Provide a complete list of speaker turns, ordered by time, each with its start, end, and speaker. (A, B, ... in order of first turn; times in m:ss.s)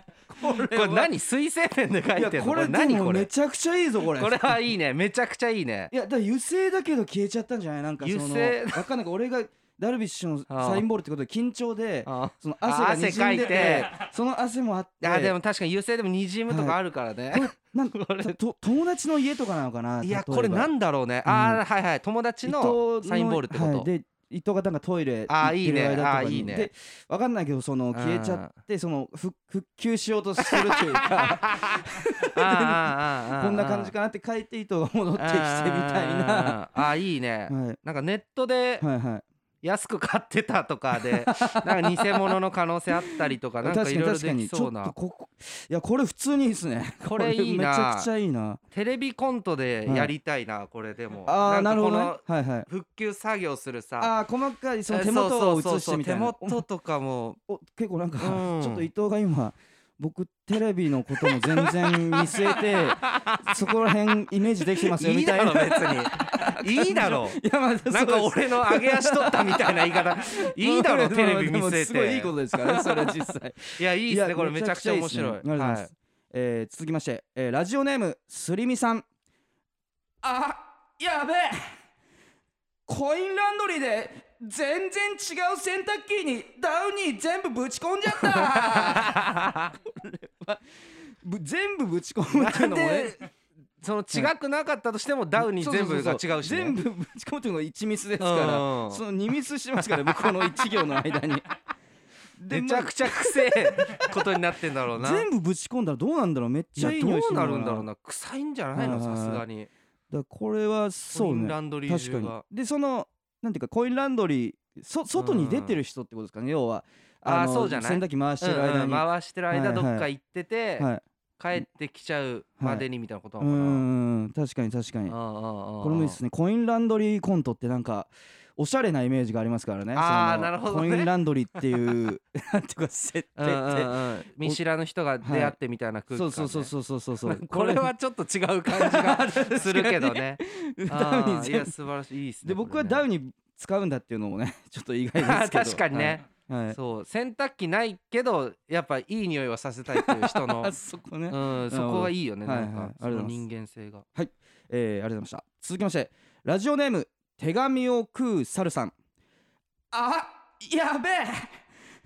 0:00.3-0:01.1 A
0:00.4-0:03.3 B
0:02.1-0:04.6 A
0:04.1-0:05.9 B
0:05.9-0:15.3 A
0:08.0-0:08.9 B
0:10.5-0:10.8 B
0:12.0-0:14.0 B
0:15.0-0:18.3 B
0:16.5-0:16.8 A
0:17.3-0:20.7 A
0:20.0-0:23.9 B
0:21.2-0:21.6 A
0:22.4-0:36.6 A
0:25.3-0:26.7 B
0:27.9-0:28.5 B
0:30.4-0:33.9 B
0:35.2-0:38.8 B
0:37.5-0:37.8 A
0:38.8-0:39.2 A
0:39.6-0:44.9 B
0:41.0-0:42.3 A
0:43.6-0:48.6 A
0:47.0-0:48.1 B
0:48.7-0:54.1 B
0:49.8-0:50.1 A
0:51.2-0:52.7 A
0:54.0-0:56.6 A
0:54.9-0:57.4 B
0:57.5-1:19.0 A
0:58.2-0:58.9 B
1:01.2-1:15.9 B
1:20.2-1:21.7 A
1:22.9-1:30.6 A
1:28.2-1:29.7 B
1:31.2-1:33.1 A
1:32.3-1:33.2 B
1:33.8-1:36.8 B
1:35.4-1:41.4 A
1:38.2-1:39.0 B
1:39.8-1:40.8 B
1:42.4-1:44.2 A
1:42.5-1:45.2 B
1:45.0-1:47.8 A
1:46.8-1:49.7 B
1:48.7-1:49.4 A
1:50.1-2:00.1 A
1:51.1-1:52.4 B
1:55.1-1:55.8 B
1:57.2-2:00.9 B
2:01.4-2:03.8 B
2:02.6-2:02.8 A
2:03.4-2:05.2 A
2:05.1-2:06.2 B
2:05.8-2:14.6 A
2:09.9-2:11.1 B
2:13.4-2:16.7 B
2:15.2-2:15.6 A
2:16.1-2:17.9 A
2:17.2-2:23.0 B
2:18.7-2:21.7 A
2:22.4-2:26.8 A
2:25.2-2:30.7 B
2:29.9-2:33.4 A
2:31.3-2:34.0 B
2:34.1-2:38.9 A
2:39.9-2:41.6 A